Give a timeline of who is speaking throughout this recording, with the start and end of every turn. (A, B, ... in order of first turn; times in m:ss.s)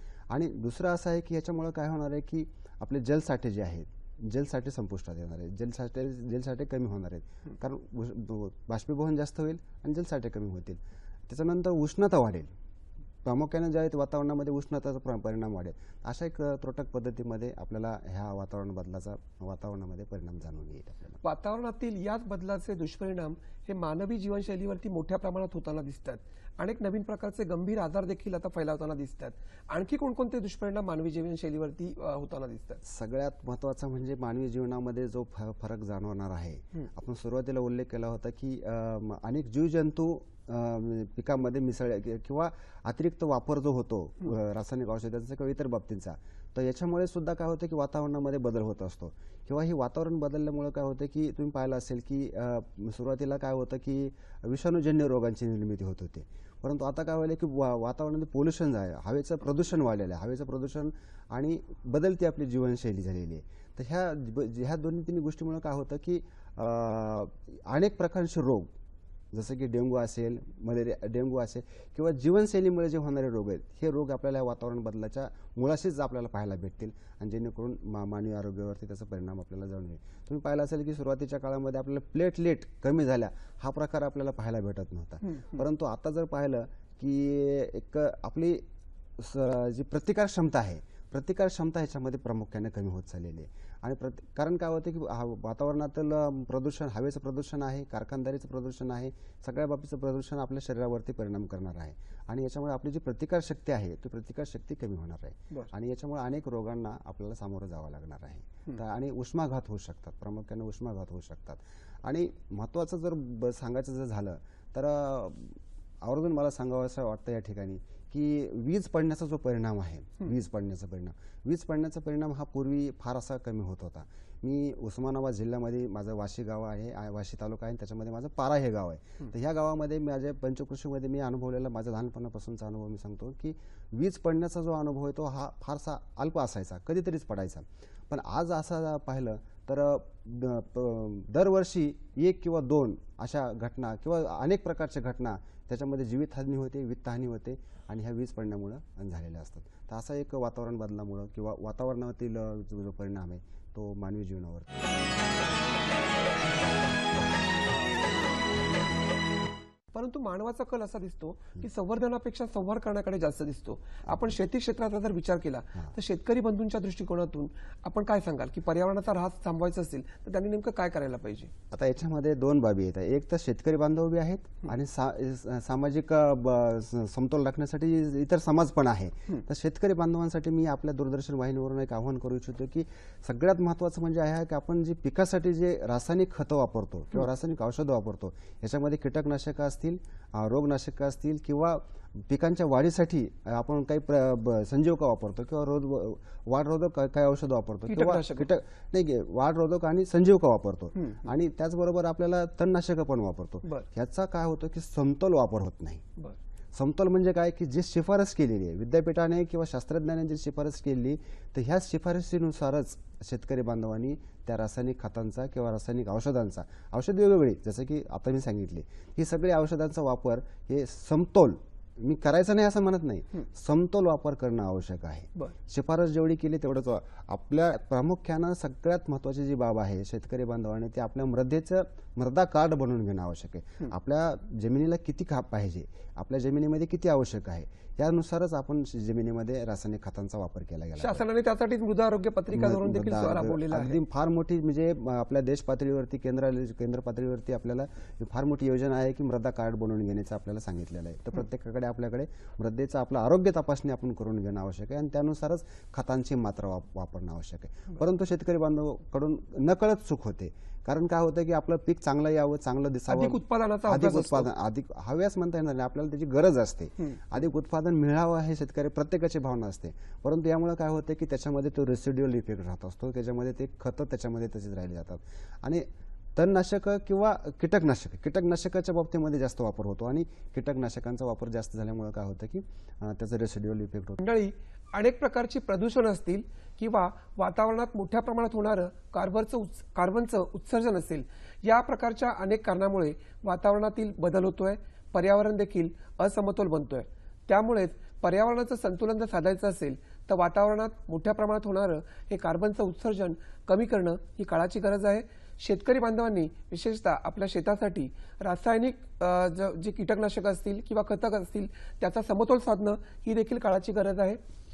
0:00.3-0:12.5 A
0:13.2-0:21.2 A
0:21.2-0:32.8 B
0:32.8-1:08.7 A
1:09.3-1:28.6 A
1:25.2-1:25.6 B
1:29.2-2:35.0 A
2:39.9-2:51.5 B
2:44.0-2:44.4 A
2:51.7-3:26.0 A
3:17.9-3:18.5 B
3:20.9-3:21.2 B
3:26.7-4:01.2 A
4:01.0-4:04.0 B
4:02.5-4:44.2 A
4:23.1-4:24.5 B
4:44.2-5:14.4 B